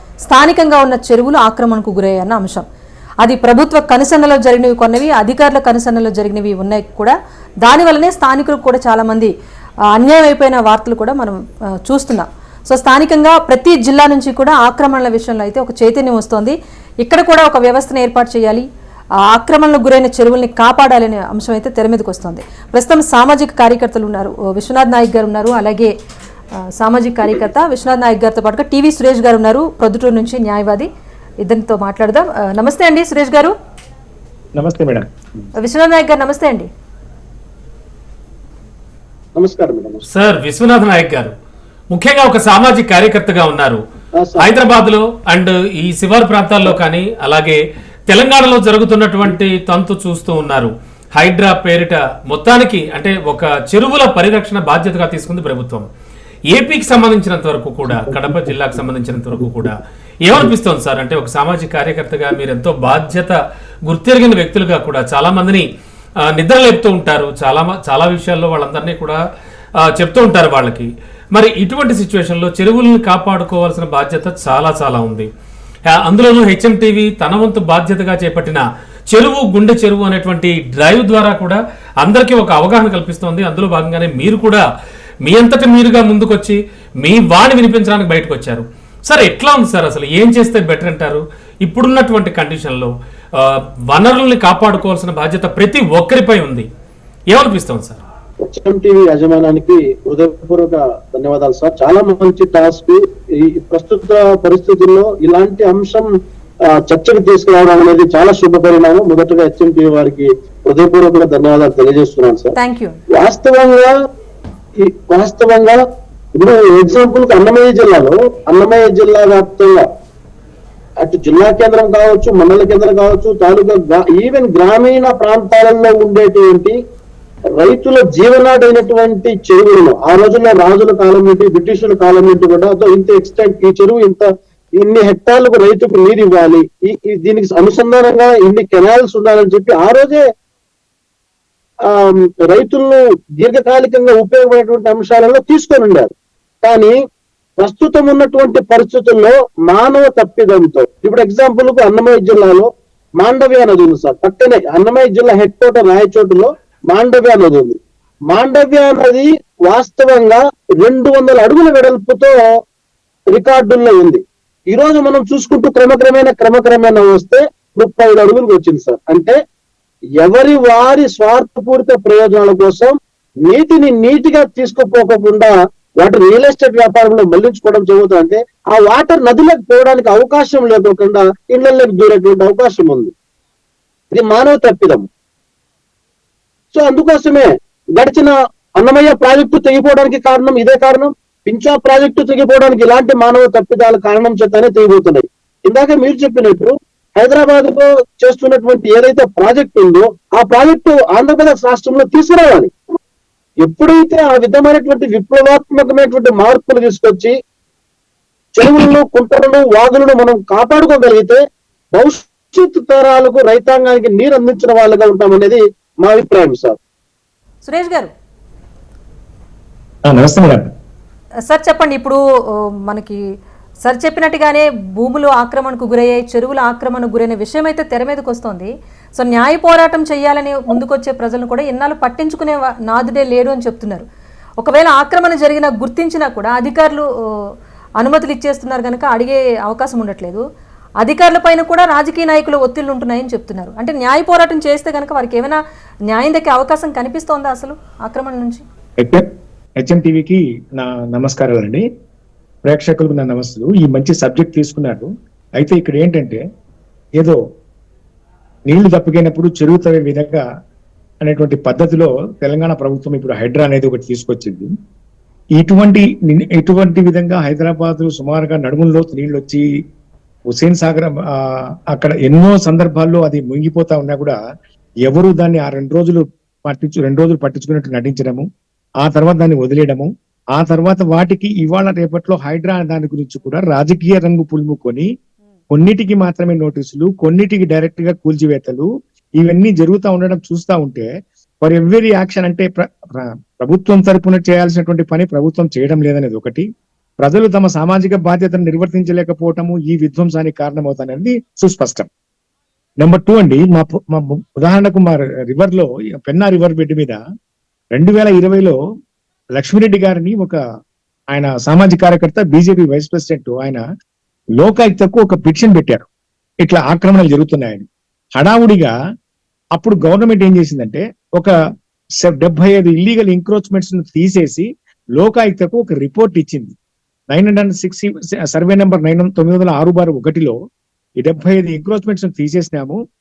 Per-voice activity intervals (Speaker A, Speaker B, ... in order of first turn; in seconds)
Speaker A: 0.2-2.6, 3.2-9.3, 9.9-18.6, 19.2-25.9, 26.8-30.9, 31.4-33.5, 35.6-36.7, 112.5-113.0, 217.6-218.1, 221.4-222.2, 222.8-223.2, 223.8-234.0, 234.6-237.0, 238.0-240.4, 241.0-248.6
Speaker B: 34.6-35.0, 57.9-58.7, 59.3-59.7, 220.1-220.7, 249.8-251.8, 252.7-256.4, 258.7-260.4, 261.2-264.7, 265.6-269.6, 270.5-271.4, 271.9-274.4, 275.1-278.4, 279.0-285.1, 285.7-288.9, 289.4-291.1, 291.6-296.6, 297.2-302.1, 303.0-307.2, 307.9-308.8, 309.6-310.6, 311.3-313.8, 314.6-316.1, 316.6-317.9, 318.4-318.9, 319.8-321.5, 322.2-326.8, 327.3-330.6, 331.2-333.0
Speaker C: 39.4-40.0, 44.2-44.5, 98.4-106.1, 106.8-112.5, 113.1-113.9, 114.8-115.8, 116.3-119.8, 121.0-126.8, 127.5-134.2, 134.8-140.2, 141.8-146.1, 146.6-146.9, 147.6-152.7, 153.2-157.8, 158.3-162.4, 163.3-169.3, 170.2-172.9, 173.4-183.1, 184.1-185.1, 186.7-202.7, 203.6-207.3, 208.6-211.4, 211.9-216.8
Speaker D: 40.1-41.3, 41.9-43.8, 44.4-55.9, 56.5-65.7, 66.2-69.2, 69.8-75.3, 75.9-84.6, 85.2-96.7, 97.3-98.0